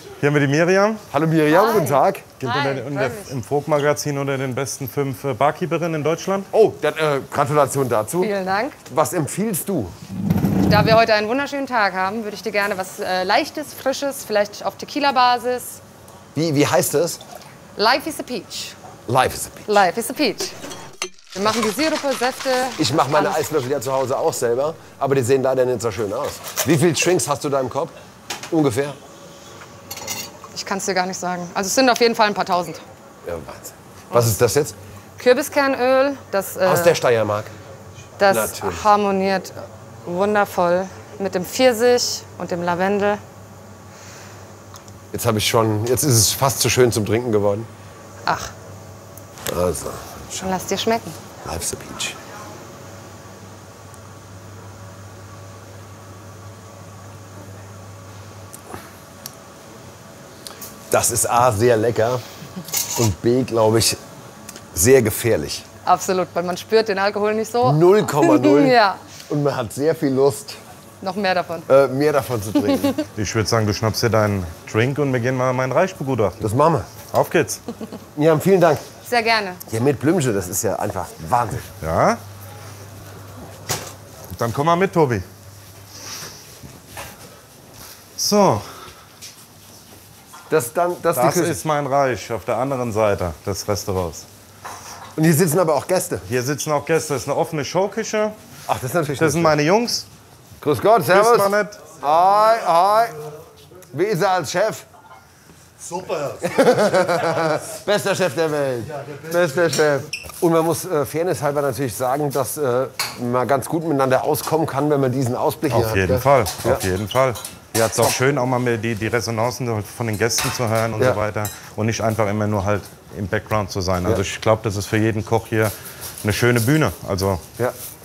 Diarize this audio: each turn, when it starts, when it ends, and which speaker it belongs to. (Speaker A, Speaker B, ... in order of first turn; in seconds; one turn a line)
Speaker A: 0.2-1.0
Speaker B: 1.1-2.4
Speaker C: 1.5-3.3
Speaker A: 2.4-6.5
Speaker B: 6.5-8.3
Speaker C: 8.2-8.8
Speaker B: 8.8-9.9
Speaker C: 10.6-15.8
Speaker B: 16.3-17.2
Speaker C: 17.8-18.7
Speaker B: 19.1-19.8
Speaker C: 19.7-20.5
Speaker C: 21.3-23.4
Speaker B: 22.8-27.9
Speaker B: 28.5-29.0
Speaker C: 30.5-32.8
Speaker B: 33.2-34.8
Speaker C: 35.2-37.0
Speaker B: 36.6-37.5
Speaker C: 38.2-43.2
Speaker B: 38.3-38.8
Speaker B: 45.1-47.7
Speaker C: 48.2-48.5
Speaker B: 49.5-50.5
Speaker C: 50.4-51.1
Speaker B: 51.4-52.2
Speaker B: 60.9-62.2
Speaker B: 62.9-64.0
Speaker B: 64.7-65.7
Speaker C: 65.8-69.0
Speaker B: 67.6-70.6
Speaker C: 71.0-71.7
Speaker B: 71.7-73.0
Speaker A: 73.2-76.4
Speaker B: 76.4-76.9
Speaker A: 77.0-77.6
Speaker B: 78.2-78.8
Speaker C: 79.0-79.6
Speaker B: 79.7-81.7
Speaker A: 81.8-82.2
Speaker A: 84.3-85.2
Speaker A: 88.2-88.7
Speaker B: 90.5-91.6
Speaker A: 91.1-94.3
Speaker B: 95.2-96.2
Speaker A: 96.2-98.3
Speaker B: 98.7-99.5
Speaker A: 99.2-100.1
Speaker B: 100.6-103.2
Speaker A: 101.1-101.8
Speaker B: 103.9-104.8
Speaker B: 106.2-116.8
Speaker A: 115.7-125.7
Speaker B: 117.7-118.2
Speaker A: 126.2-127.4